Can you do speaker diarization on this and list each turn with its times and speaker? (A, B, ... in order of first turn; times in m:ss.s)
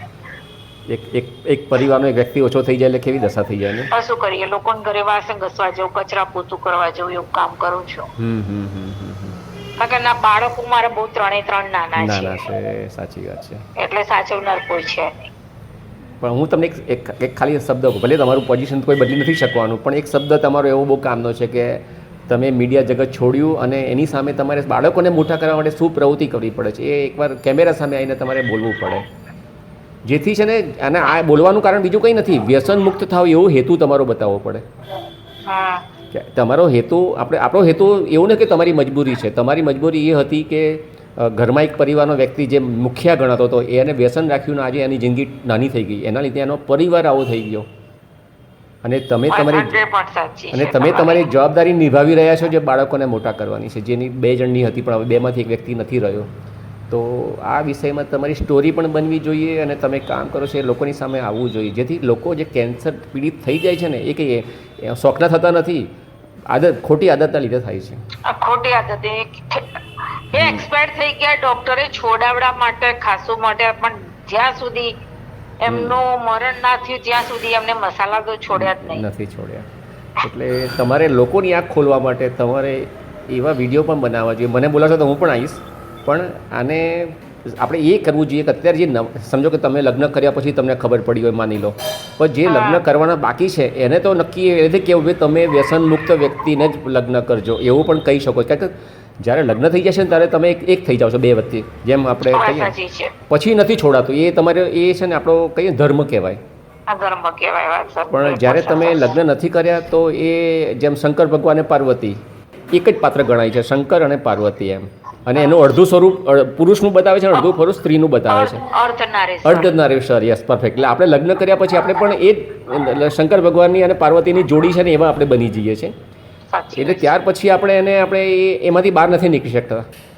0:00.9-0:03.9 A
0:03.9-0:08.1 B
0:08.2-0:09.4 A
0:09.8-0:12.4 B
0:12.0-0:13.6 A
0:13.8-0:15.3 B
0:16.2-0:29.0 A
0:30.1-0:34.6 A
0:35.4-0:35.8 B
0:36.1-0:47.7 A
0:48.8-0:49.8 A
0:49.3-0:51.3 B
0:50.5-0:56.3 A
0:56.9-1:05.9 A
1:06.5-1:08.0 A
1:08.3-1:09.7 B
1:10.3-1:14.9 B
1:10.4-1:10.6 A
1:15.6-1:19.0 B
1:15.7-1:16.0 A
1:18.5-1:19.7 A
1:20.2-1:42.7 A
1:32.5-1:32.8 B
1:42.3-1:43.1 B
1:43.3-1:46.4 A
1:46.9-1:49.2 B
1:48.1-1:52.2 A
1:52.7-1:58.6 A
1:58.3-1:59.7 B
1:59.4-2:05.9 A
2:06.5-2:07.1 B
2:06.8-2:09.8 A